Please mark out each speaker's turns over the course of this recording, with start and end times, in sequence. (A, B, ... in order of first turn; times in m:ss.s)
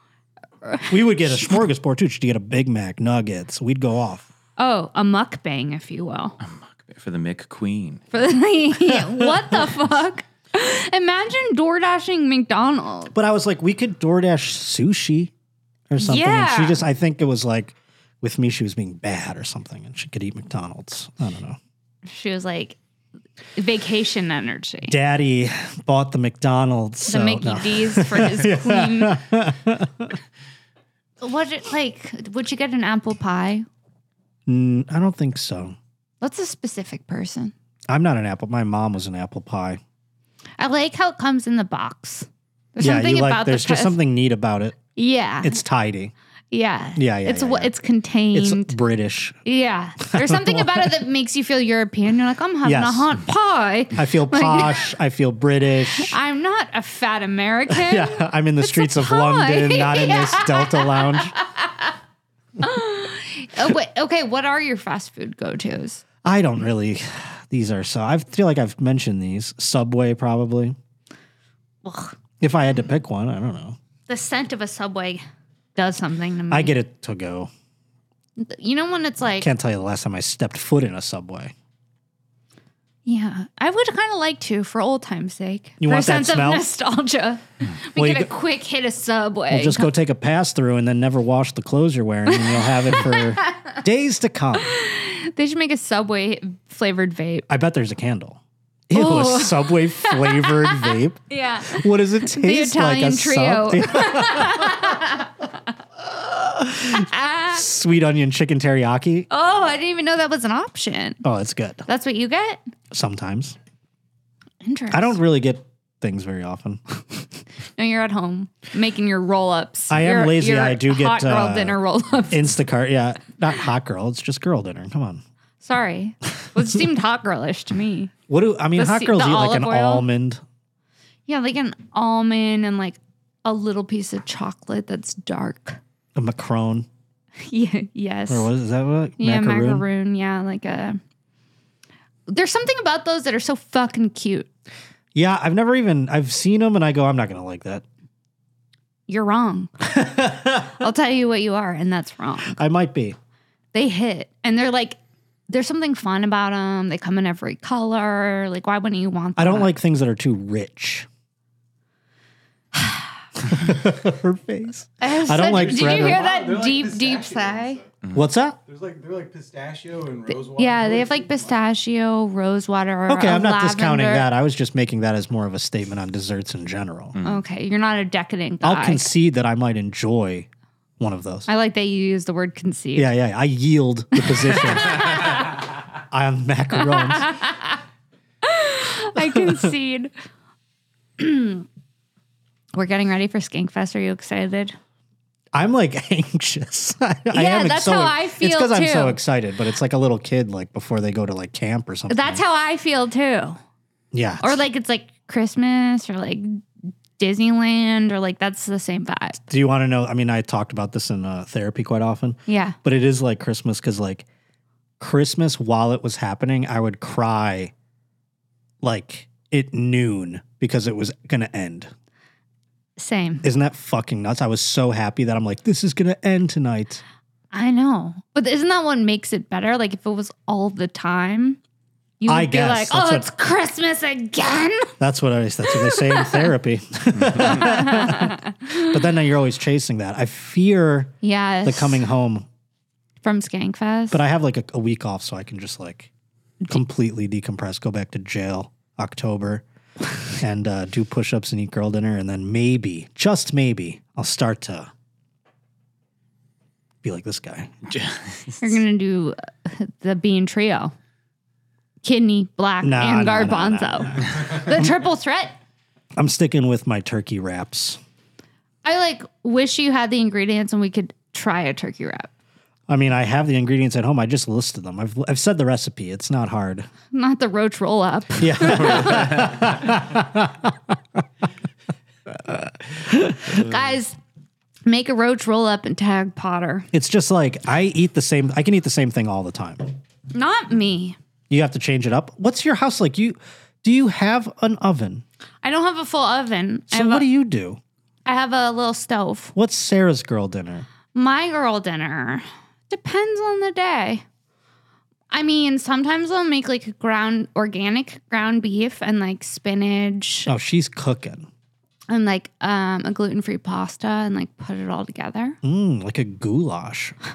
0:00.6-0:01.5 A
0:00.9-0:04.3 B
0:04.6-0:06.4 A
0:06.4-0:08.0 C
0:08.1-0:13.1 A
0:08.9-0:09.4 B
0:13.1-0:15.3 B
0:15.9-0:21.6 B
0:16.0-0:16.8 A
0:22.1-0:22.8 A
0:23.6-0:25.0 A
0:24.9-0:30.2 B
0:27.1-0:29.2 A
0:31.2-0:33.7 A
0:34.5-0:35.8 B
0:36.2-0:37.5 A
0:37.9-0:39.8 B
0:40.6-0:44.0 A
0:42.8-0:44.8 B
0:45.0-0:45.6 A
0:45.4-0:46.1 B
0:46.5-0:48.8 A
0:47.0-0:47.7 B
0:48.3-0:49.4 B
0:49.4-0:54.9 A
0:50.0-0:51.0 B
0:52.6-0:53.1 B
0:53.9-0:56.1 B
0:56.0-1:01.9 A
0:57.7-1:01.3 B
1:02.6-1:06.0 A
1:06.2-1:10.8 B
1:11.8-1:12.1 A
1:12.4-1:13.8 B
1:14.1-1:15.2 A
1:15.8-1:16.8 A
1:16.5-1:17.5 B
1:18.4-1:19.5 A
1:19.4-1:21.5 B
1:23.1-1:29.9 A
1:25.8-1:26.6 B
1:28.0-1:28.3 B
1:29.5-1:34.7 B
1:32.3-1:33.7 A
1:34.7-1:37.5 A
1:37.5-1:45.0 B
1:38.9-1:45.5 A
1:46.1-1:49.3 B
1:46.8-1:47.6 A
1:49.3-1:51.2 A
1:51.2-1:51.8 B
1:51.9-1:52.6 A
1:52.9-1:53.6 B
1:54.6-1:55.2 A
1:54.9-1:56.8 B
1:57.8-2:02.5 A
1:59.9-2:01.8 B
2:02.3-2:05.2 B
2:05.6-2:08.1 A
2:08.3-2:10.4 B
2:08.8-2:10.1 A
2:11.3-2:15.8 A
2:16.1-2:16.9 B
2:17.5-2:18.5 A
2:18.3-2:19.8 B
2:19.2-2:21.0 A
2:22.3-2:24.5 A
2:25.1-2:27.8 B
2:29.1-2:29.7 A
2:29.9-2:30.8 B
2:30.8-2:32.6 A
2:32.5-2:33.2 B
2:33.7-2:35.0 A
2:35.5-2:39.7 A
2:39.4-2:41.1 B
2:43.4-2:46.2 B
2:45.0-2:47.8 A
2:45.4-2:47.9 D
2:48.1-2:48.6 B
2:48.6-2:51.6 D
2:50.6-2:54.3 A
2:53.1-2:57.2 B
2:57.2-2:57.4 C
2:57.2-2:59.1 A
2:58.6-3:00.5 B
3:01.0-3:01.5 B
3:01.5-3:03.1 A
3:03.0-3:05.6 B
3:04.3-3:05.5 A
3:06.1-3:07.3 B
3:06.8-3:07.8 A
3:08.4-3:10.1 A
3:09.2-3:09.7 B
3:11.2-3:11.6 A
3:12.7-3:14.8 A
3:15.5-3:22.4 B
3:17.3-3:19.2 A
3:22.1-3:23.6 A
3:24.1-3:24.6 B
3:24.4-3:26.6 A
3:27.2-3:29.4 A
3:29.5-3:34.2 B
3:32.5-3:32.8 A
3:35.0-3:37.7 B
3:38.8-3:41.9 B
3:43.0-3:43.4 A
3:43.4-3:47.0 B
3:47.5-3:51.6 A
3:52.2-3:54.9 A
3:52.3-3:53.3 B
3:55.0-4:02.4 B
3:55.7-3:56.5 A
3:57.4-3:58.9 A
4:01.2-4:02.0 A
4:03.2-4:04.2 A
4:04.1-4:06.1 B
4:06.7-4:09.6 B
4:10.3-4:14.9 B
4:17.0-4:17.7 B
4:17.9-4:18.6 C
4:18.6-4:20.9 A
4:22.0-4:25.5 A
4:22.8-4:24.9 B
4:26.2-4:28.0 B
4:28.8-4:32.3 A
4:32.9-4:36.9 B
4:37.1-4:39.5 A
4:38.4-4:41.0 B
4:42.4-4:43.6 B
4:43.5-4:44.2 A
4:44.9-4:46.9 A
4:46.9-4:49.8 B
4:50.3-4:51.2 A
4:51.5-4:55.2 B
4:55.6-4:57.3 A
4:56.9-4:57.8 B
4:58.3-4:59.5 A
4:59.6-5:00.9 B
5:01.1-5:04.2 A
5:05.3-5:10.5 A
5:10.4-5:11.5 B
5:12.1-5:15.6 A
5:15.6-5:17.1 B